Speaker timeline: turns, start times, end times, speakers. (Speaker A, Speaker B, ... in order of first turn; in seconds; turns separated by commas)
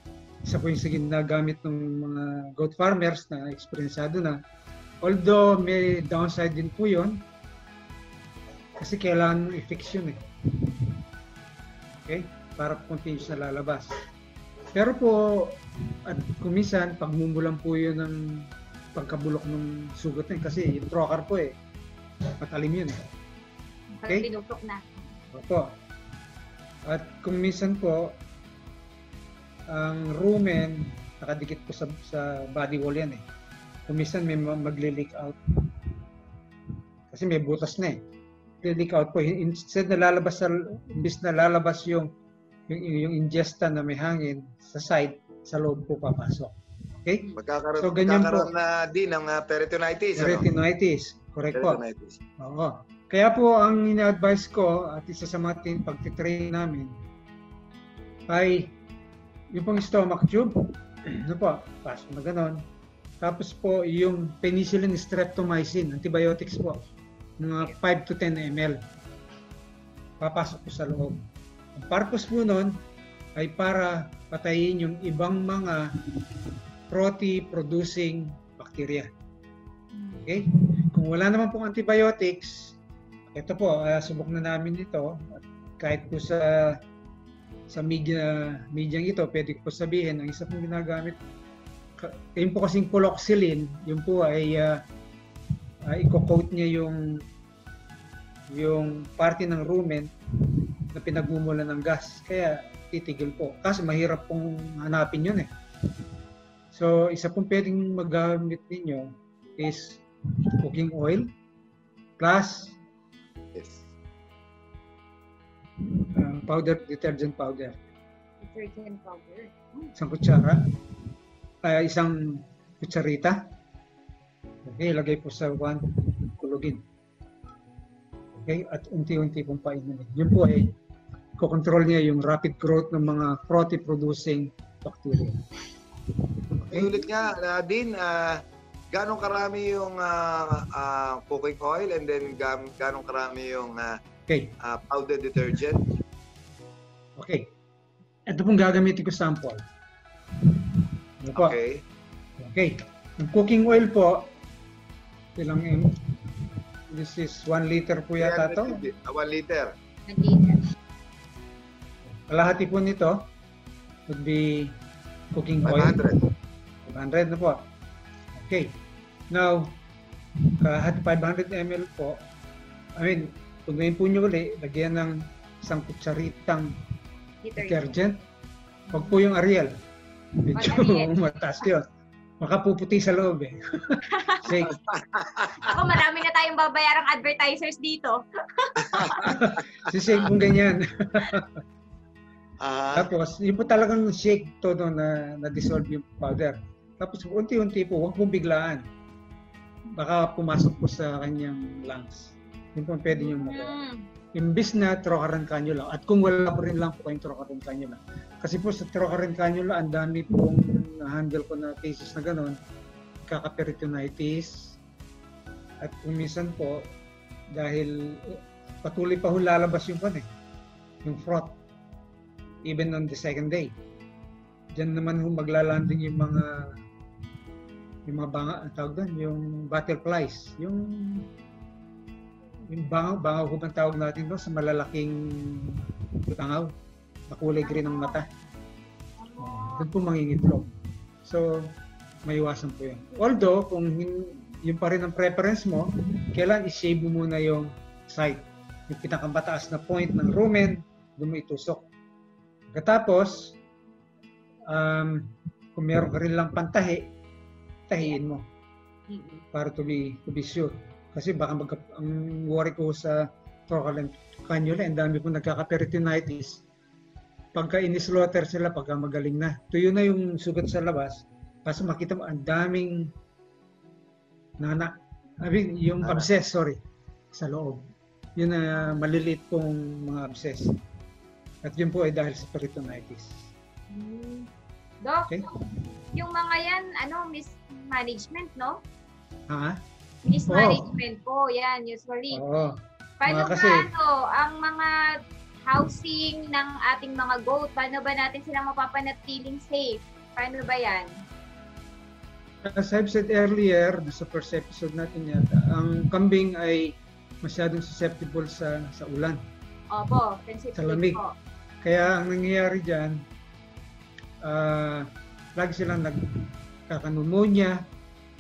Speaker A: 0.5-4.4, Speaker A: 5.0-7.2, Speaker A: 8.8-10.9, Speaker A: 11.9-13.9, Speaker A: 14.7-21.6, Speaker A: 22.4-23.0, Speaker B: 23.9-24.8, Speaker A: 25.3-25.7, Speaker A: 26.9-28.2, Speaker A: 29.7-33.2, Speaker A: 33.9-36.0, Speaker A: 37.1-38.0, Speaker A: 38.6-42.1, Speaker A: 42.7-48.5, Speaker C: 47.4-50.5, Speaker A: 50.2-51.8, Speaker C: 51.5-52.2, Speaker A: 52.4-56.9, Speaker A: 58.3-58.7, Speaker A: 59.5-62.7, Speaker A: 63.2-66.8, Speaker A: 67.4-68.8, Speaker A: 70.2-71.2, Speaker A: 71.8-72.8, Speaker A: 73.4-76.3, Speaker A: 76.9-79.1, Speaker A: 80.2-82.8, Speaker A: 83.3-86.8, Speaker A: 87.7-91.2, Speaker A: 92.0-94.8, Speaker A: 95.8-97.2, Speaker A: 98.5-105.5, Speaker A: 106.7-110.0, Speaker A: 110.6-111.3, Speaker A: 112.2-112.8, Speaker C: 113.5-113.9, Speaker A: 116.1-117.8, Speaker B: 118.4-119.9, Speaker A: 120.0-120.6, Speaker A: 121.6-123.4, Speaker A: 124.7-126.8, Speaker A: 128.3-130.7, Speaker A: 131.4-135.4, Speaker A: 136.2-137.1, Speaker C: 136.7-138.4, Speaker C: 138.9-144.0, Speaker A: 144.3-144.6, Speaker C: 144.6-146.0, Speaker A: 147.2-147.5, Speaker A: 148.3-149.7, Speaker A: 150.4-151.6, Speaker C: 151.3-151.8, Speaker A: 152.4-154.3, Speaker A: 155.4-158.8, Speaker C: 158.2-159.7, Speaker B: 160.1-160.6, Speaker A: 162.3-163.2, Speaker A: 164.1-164.8, Speaker A: 165.3-166.0, Speaker C: 165.7-166.2, Speaker A: 166.8-167.6, Speaker A: 168.3-168.8, Speaker A: 169.3-169.8, Speaker A: 170.5-172.2, Speaker A: 173.0-176.7, Speaker B: 177.4-177.8, Speaker A: 177.6-178.2, Speaker A: 178.9-179.7, Speaker A: 180.4-181.9, Speaker B: 180.6-181.1, Speaker A: 182.4-184.8, Speaker B: 184.1-184.5, Speaker C: 184.7-185.7, Speaker B: 185.6-189.3, Speaker C: 188.9-189.4, Speaker A: 189.2-191.6, Speaker C: 192.6-193.1, Speaker A: 192.9-198.8, Speaker A: 200.0-203.7, Speaker B: 203.1-204.1, Speaker A: 204.3-212.6, Speaker A: 213.2-214.8, Speaker A: 215.8-216.9, Speaker A: 217.5-220.3, Speaker A: 221.0-221.6, Speaker A: 222.7-223.8, Speaker A: 224.8-226.7, Speaker A: 228.1-231.3, Speaker A: 232.7-236.7, Speaker A: 237.3-238.3, Speaker B: 237.5-238.2, Speaker B: 239.2-239.9, Speaker A: 239.4-240.7, Speaker A: 241.2-251.8, Speaker A: 252.7-253.6, Speaker A: 254.7-257.1, Speaker A: 257.9-258.4, Speaker B: 259.1-259.4, Speaker A: 259.5-266.6, Speaker A: 267.6-273.1, Speaker A: 274.6-276.8, Speaker A: 277.3-277.9, Speaker A: 278.4-280.8, Speaker A: 281.6-283.5, Speaker B: 283.9-284.5, Speaker B: 285.0-285.5, Speaker B: 286.1-288.8, Speaker A: 289.5-289.8, Speaker B: 290.3-292.4, Speaker A: 290.5-290.9, Speaker A: 292.3-293.9, Speaker B: 293.2-295.1, Speaker B: 295.7-301.1, Speaker A: 302.6-309.4, Speaker B: 309.9-311.3, Speaker A: 310.8-311.2, Speaker A: 311.8-313.2, Speaker A: 314.4-316.3, Speaker A: 316.9-317.8